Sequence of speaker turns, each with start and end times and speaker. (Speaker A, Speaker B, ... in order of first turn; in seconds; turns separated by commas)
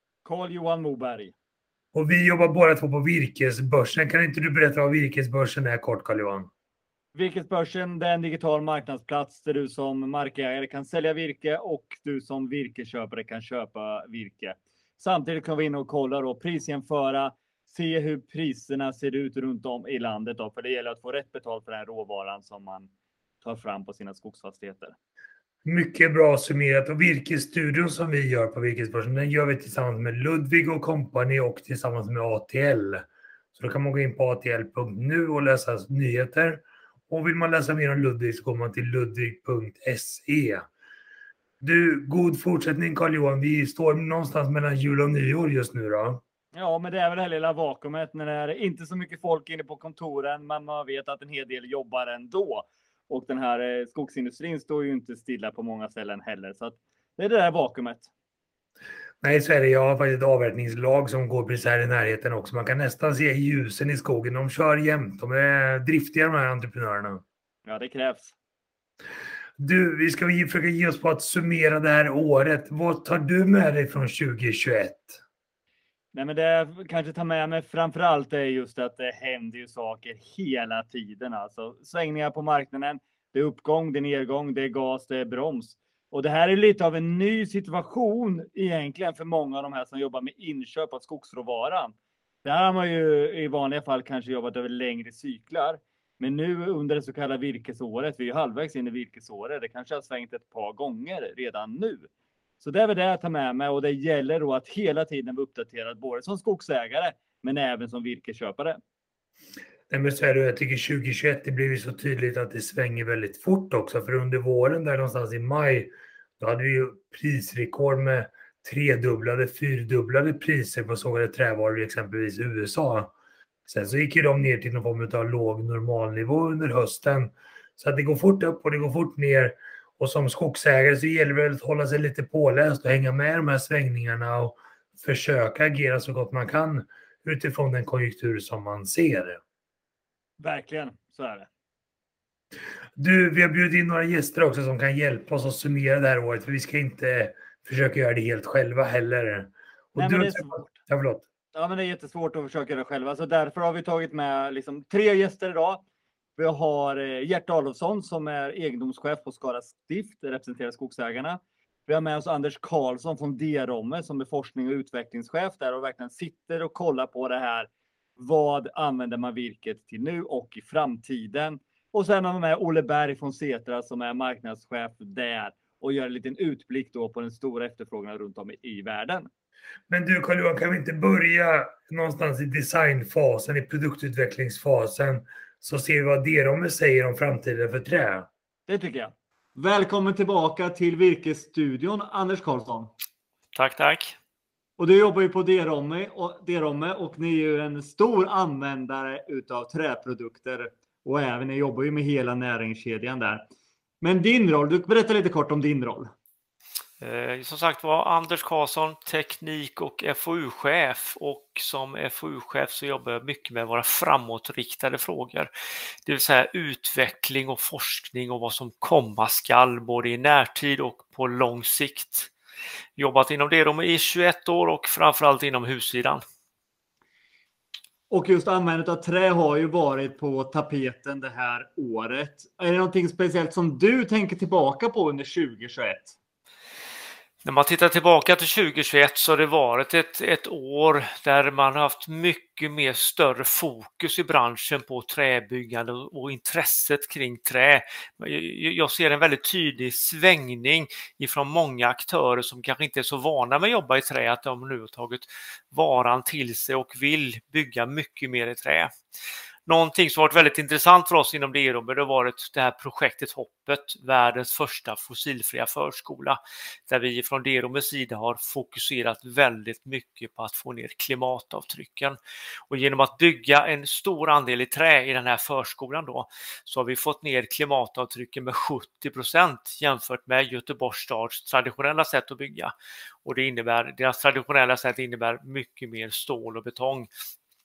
Speaker A: 0.2-1.3, Speaker B: 1.9-6.5, Speaker A: 7.1-22.9, Speaker A: 23.4-24.9, Speaker B: 25.6-40.7, Speaker B: 41.6-46.2, Speaker A: 46.5-58.1, Speaker B: 59.2-67.2, Speaker A: 67.7-68.3, Speaker B: 69.6-75.2, Speaker A: 76.1-102.1, Speaker A: 102.6-108.8, Speaker B: 109.9-123.1, Speaker B: 123.7-139.4, Speaker A: 140.4-141.5, Speaker B: 143.0-151.2, Speaker A: 150.0-150.6, Speaker A: 151.5-155.8, Speaker A: 156.4-179.3, Speaker B: 179.9-188.3, Speaker A: 188.7-192.9, Speaker C: 193.5-194.2, Speaker A: 194.8-203.5, Speaker A: 204.0-206.1, Speaker C: 207.0-215.5, Speaker C: 216.1-222.3, Speaker C: 223.0-226.2, Speaker A: 228.1-236.1, Speaker C: 237.4-258.9, Speaker C: 259.7-272.2, Speaker C: 272.7-282.7, Speaker C: 283.2-287.1